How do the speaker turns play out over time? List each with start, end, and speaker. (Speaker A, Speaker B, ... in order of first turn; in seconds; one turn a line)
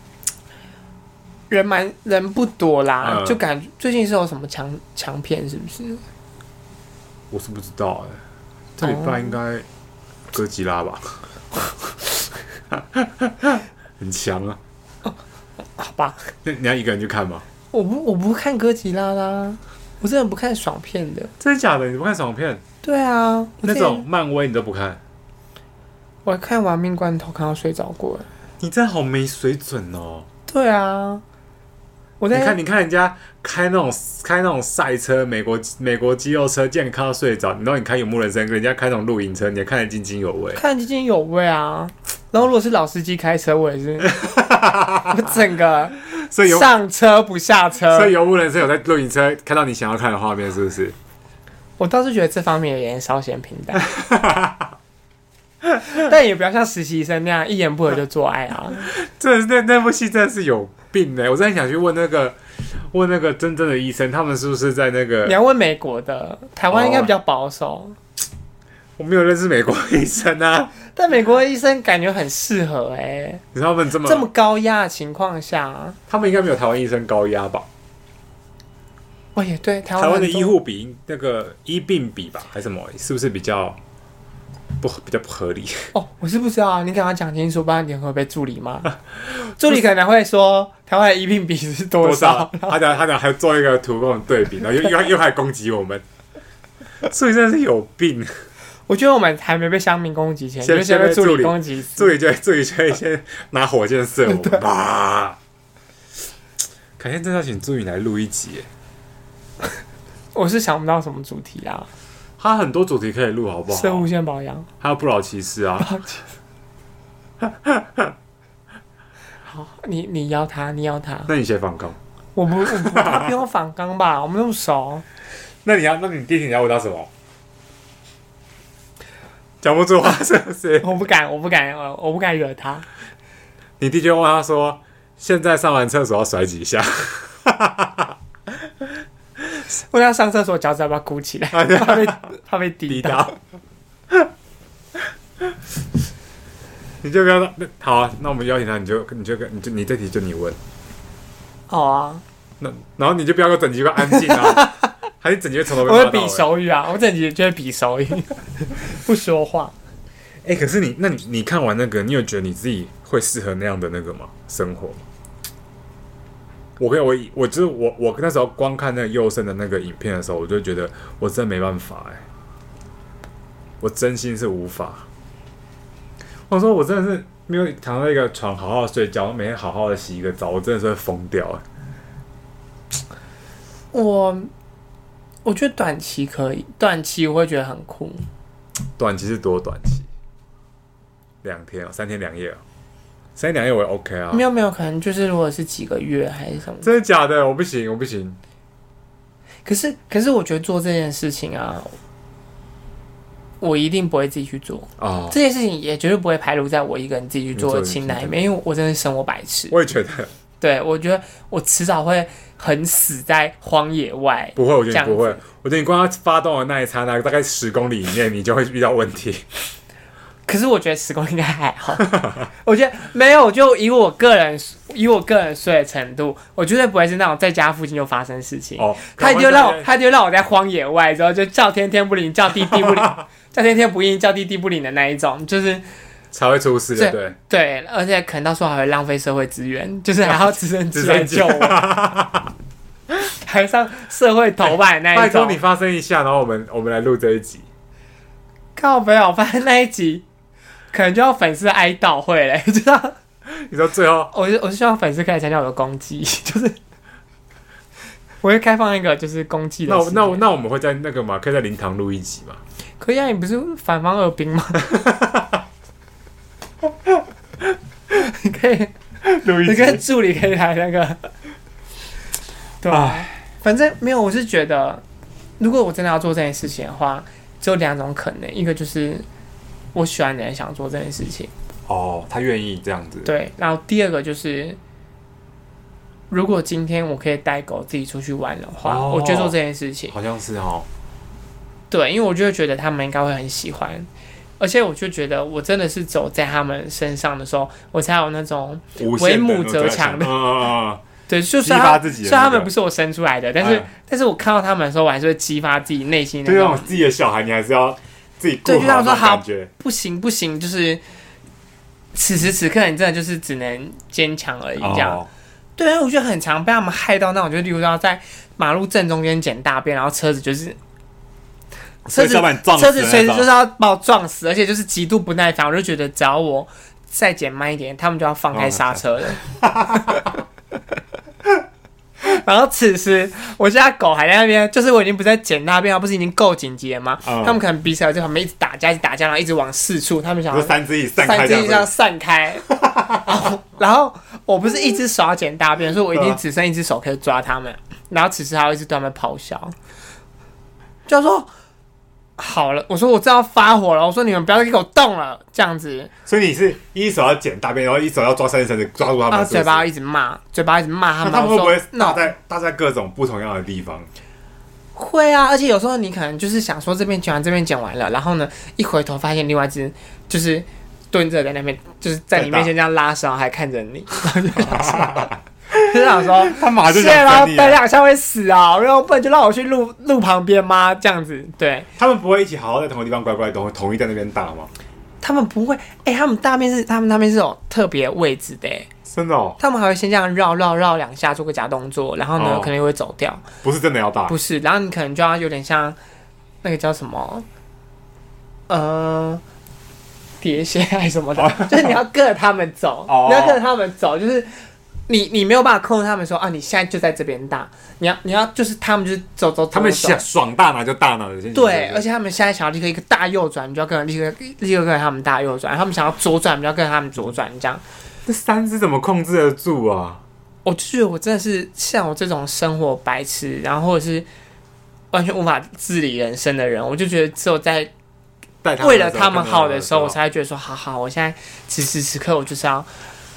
Speaker A: 1.5-6.0
Speaker B: 3.0-3.4
Speaker B: 7.3-8.2
Speaker B: 8.8-9.7
Speaker A: 8.8-9.3
Speaker B: 10.3-12.0
Speaker B: 12.7-14.6
Speaker A: 15.8-16.3
Speaker B: 16.4-17.4
Speaker A: 17.7-21.3
Speaker B: 21.4-22.6
Speaker A: 22.8-24.1
Speaker B: 23.6-25.0
Speaker A: 26.2-28.3
Speaker B: 28.6-30.3
Speaker A: 30.5-31.2
Speaker A: 32.2-32.6
Speaker B: 32.3-40.6
Speaker A: 40.5-44.3
Speaker B: 44.0-45.3
Speaker A: 45.0-48.1
Speaker B: 46.0-46.7
Speaker B: 47.9-51.0
Speaker A: 51.8-53.9
Speaker B: 53.8-54.7
Speaker A: 55.8-58.9
Speaker B: 58.7-65.4
Speaker A: 65.2-68.0
Speaker B: 66.7-67.1
Speaker B: 69.0-70.8
Speaker A: 71.0-73.4
Speaker B: 73.5-74.3
Speaker A: 74.0-76.0
Speaker B: 76.1-77.7
Speaker A: 79.3-80.5
Speaker B: 80.0-83.8
Speaker B: 84.8-85.9
Speaker A: 85.9-92.8
Speaker B: 92.0-96.0
Speaker B: 97.0-98.3
Speaker A: 98.9-102.2
Speaker B: 100.6-105.4
Speaker A: 104.3-104.6
Speaker B: 107.0-108.7
Speaker A: 110.3-111.9
Speaker B: 112.4-114.1
Speaker A: 113.7-114.7
Speaker B: 114.8-116.0
Speaker A: 115.8-116.2
Speaker B: 117.4-118.1
Speaker A: 119.5-121.3
Speaker B: 121.3-122.0
Speaker A: 122.4-125.0
Speaker B: 122.6-123.3
Speaker B: 125.6-127.1
Speaker B: 129.6-131.0
Speaker A: 130.8-132.9
Speaker B: 133.8-138.2
Speaker A: 139.7-143.3
Speaker B: 141.5-142.3
Speaker B: 142.9-143.3
Speaker B: 147.0-150.6
Speaker A: 151.7-152.2
Speaker B: 152.6-156.5
Speaker A: 154.1-154.9
Speaker A: 155.8-159.7
Speaker B: 160.4-165.0
Speaker B: 166.8-172.2
Speaker B: 173.8-175.1
Speaker B: 176.5-181.6
Speaker A: 183.9-184.5
Speaker A: 185.4-188.3
Speaker B: 189.0-190.1
Speaker B: 191.4-192.6
Speaker B: 193.4-194.4
Speaker A: 194.3-196.9
Speaker B: 196.8-198.4
Speaker A: 199.7-202.0
Speaker A: 203.6-209.8
Speaker B: 205.0-205.4
Speaker B: 207.6-208.3
Speaker B: 209.7-210.3
Speaker A: 210.6-215.4
Speaker B: 214.6-219.5
Speaker A: 220.5-235.8
Speaker B: 228.8-229.9
Speaker B: 232.7-233.1
Speaker B: 236.3-237.4
Speaker A: 236.9-241.8
Speaker B: 240.2-242.5
Speaker A: 243.2-245.6
Speaker B: 244.7-247.7
Speaker A: 248.8-250.2
Speaker A: 250.9-253.2
Speaker B: 253.5-254.3
Speaker A: 254.3-256.8
Speaker A: 258.4-260.4
Speaker B: 259.9-262.6
Speaker A: 263.0-264.9
Speaker B: 264.9-265.6
Speaker A: 268.1-268.9
Speaker B: 269.2-270.0
Speaker A: 269.6-271.3
Speaker A: 272.8-275.0
Speaker B: 272.9-273.3
Speaker A: 275.6-279.2
Speaker A: 279.9-281.5
Speaker B: 281.9-283.3
Speaker A: 283.2-284.8
Speaker A: 286.3-290.1
Speaker B: 288.8-289.6
Speaker B: 290.1-290.9
Speaker A: 291.9-294.1
Speaker A: 294.6-300.4
Speaker B: 299.0-301.0
Speaker A: 301.3-306.9
Speaker B: 301.6-302.7
Speaker B: 303.6-303.9
Speaker B: 306.4-309.7
Speaker A: 308.6-311.0
Speaker A: 312.1-315.2
Speaker B: 314.8-315.3
Speaker A: 315.8-320.8
Speaker B: 322.1-323.5
Speaker A: 322.1-329.4
Speaker B: 328.5-330.4
Speaker A: 329.9-330.3
Speaker A: 332.2-349.8
Speaker B: 337.2-337.6
Speaker B: 340.5-341.9
Speaker B: 342.7-343.3
Speaker B: 346.1-346.4
Speaker A: 351.1-351.5
Speaker A: 352.4-356.1
Speaker B: 356.3-359.9
Speaker A: 359.3-362.2
Speaker B: 361.2-364.1
Speaker A: 364.9-381.9
Speaker B: 372.4-372.7
Speaker B: 374.6-377.8
Speaker B: 382.0-384.7
Speaker A: 385.2-388.9
Speaker B: 389.1-389.6
Speaker A: 389.6-393.4
Speaker B: 392.4-392.7
Speaker B: 393.6-394.4
Speaker A: 394.3-396.0
Speaker A: 396.6-397.4
Speaker A: 398.7-399.4
Speaker A: 400.4-410.2
Speaker B: 401.4-402.0
Speaker B: 403.1-403.6
Speaker B: 409.7-412.0
Speaker A: 411.5-417.8
Speaker B: 418.3-420.2
Speaker A: 420.6-424.3
Speaker A: 425.1-427.9
Speaker B: 428.6-430.2
Speaker A: 428.8-432.9